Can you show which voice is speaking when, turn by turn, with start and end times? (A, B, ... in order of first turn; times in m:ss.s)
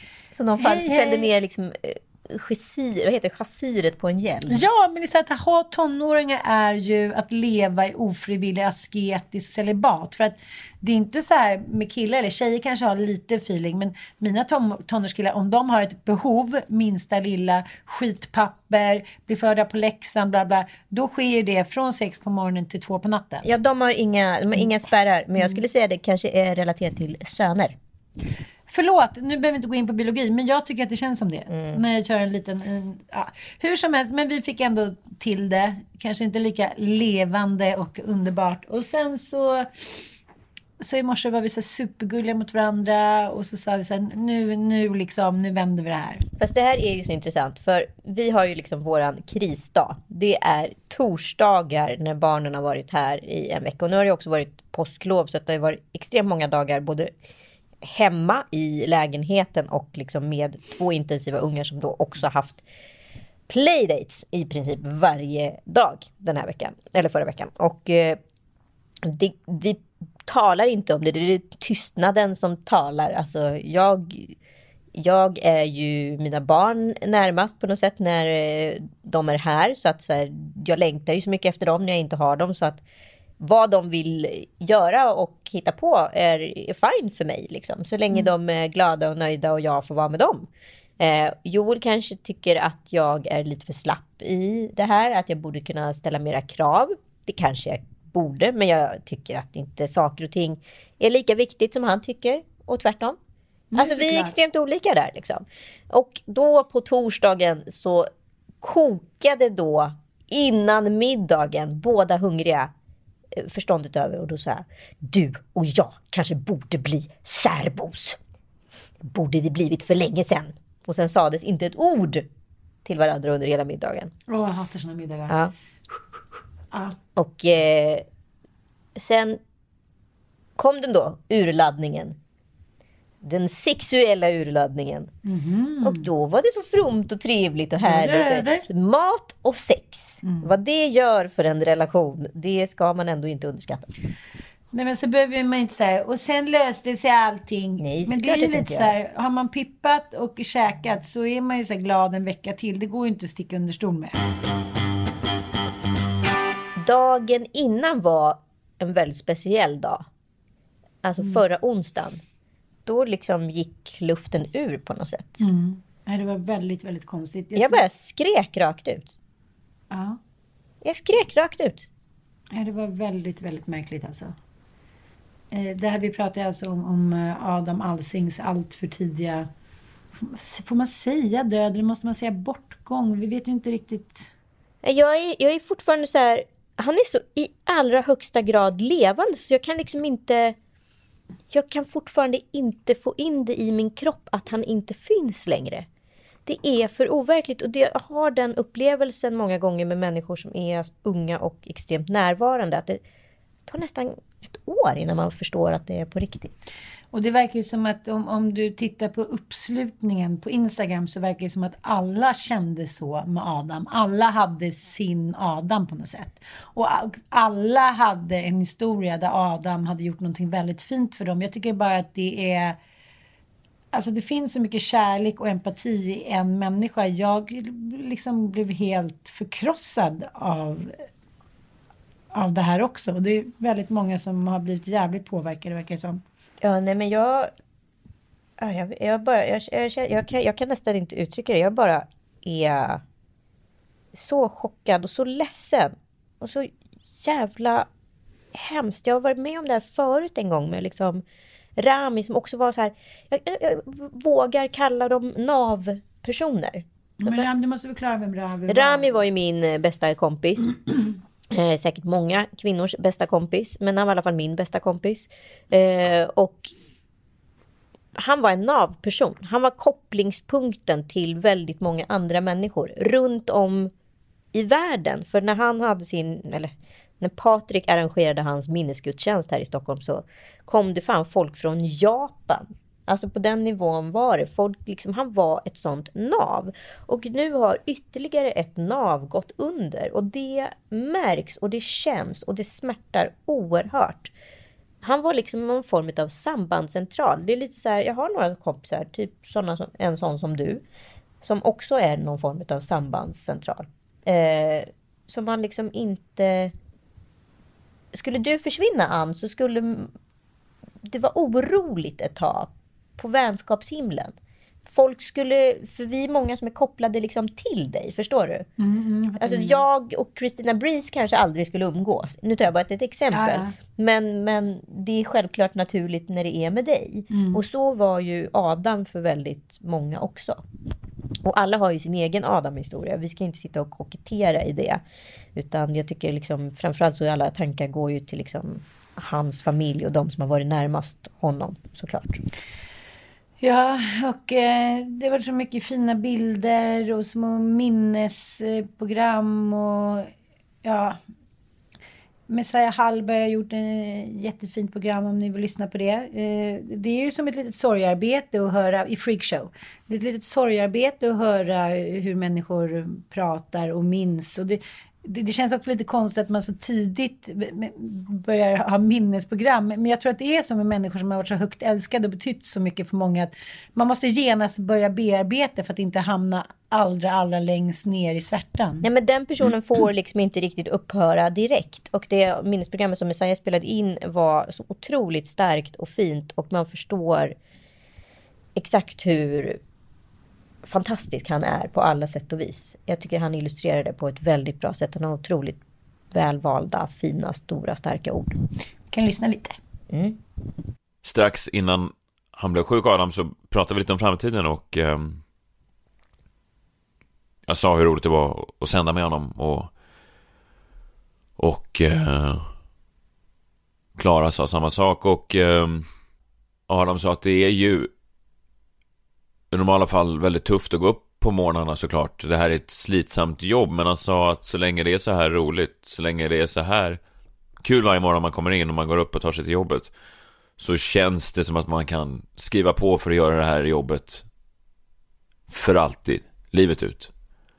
0:00.4-0:04.6 A
0:00.6-0:01.3 B
0:04.5-0:23.4 B
0:23.4-0:27.8 A
0:28.7-0:40.1 B
0:31.5-0:31.8 A
0:40.8-0:46.2 B
0:46.4-0:57.1 A
0:57.8-1:02.6 A
1:03.5-1:08.2 A
1:09.0-1:14.4 A
1:15.0-1:22.8 A
1:23.4-1:30.5 A
1:31.0-1:43.2 A
1:43.7-1:44.3 B
1:43.8-1:48.1 A
1:48.6-1:52.7 A
1:53.4-1:58.2 A
1:59.0-2:02.3 A
2:02.8-2:04.1 A
2:04.3-2:05.4 B
2:07.2-2:08.1 A
2:09.0-2:09.4 A
2:10.6-2:12.2 A
2:13.2-2:15.1 A
2:15.2-2:16.1 B
2:15.8-2:23.9 A
2:17.8-2:18.6 B
2:20.2-2:20.5 B
2:24.7-2:34.2 B
2:27.8-2:28.9 A
2:36.8-2:40.0 A
2:41.0-2:42.2 A
2:42.9-2:45.4 A
2:45.4-2:47.8 B
2:47.6-2:49.1 A
2:49.9-2:50.2 B
2:50.8-2:51.9 A
2:52.5-2:54.4 B
2:55.5-2:59.5 B
3:00.1-3:04.3 B
3:04.8-3:10.6 A
3:11.5-3:15.9 A
3:16.5-3:23.0 A
3:23.7-3:26.6 A
3:27.1-3:42.8 B
3:43.9-3:50.9 B
3:52.3-3:56.2 B
3:56.6-3:57.5 A
3:58.6-4:03.0 A
4:04.1-4:06.7 A
4:07.2-4:07.9 A
4:08.5-4:11.2 A
4:11.8-4:17.5 A
4:17.2-4:19.1 B
4:18.7-4:20.8 A
4:21.5-4:26.7 A
4:28.2-4:33.9 A
4:34.5-4:54.3 A
4:55.0-5:00.8 A
5:01.4-5:06.7 A
5:08.1-5:10.1 A
5:11.0-5:14.3 A
5:14.9-5:18.6 A
5:18.8-5:19.8 B
5:19.4-5:30.6 A
5:23.3-5:23.7 B
5:27.3-5:27.6 B
5:31.4-5:35.0 A
5:35.6-5:42.4 A
5:43.6-5:50.3 B
5:50.8-5:51.2 B
5:52.5-6:19.1 B
6:19.0-6:27.6 A
6:28.8-6:29.8 A
6:30.8-6:35.8 A
6:36.3-6:38.6 A
6:39.1-6:39.8 B
6:40.1-6:40.4 A
6:41.2-6:45.4 C
6:47.6-6:49.9 C
6:51.6-6:52.8 C
6:54.2-6:56.1 C
6:56.9-6:58.1 C
6:59.7-7:07.2 C
7:07.8-7:10.1 C
7:10.8-7:14.5 C
7:15.7-7:17.3 C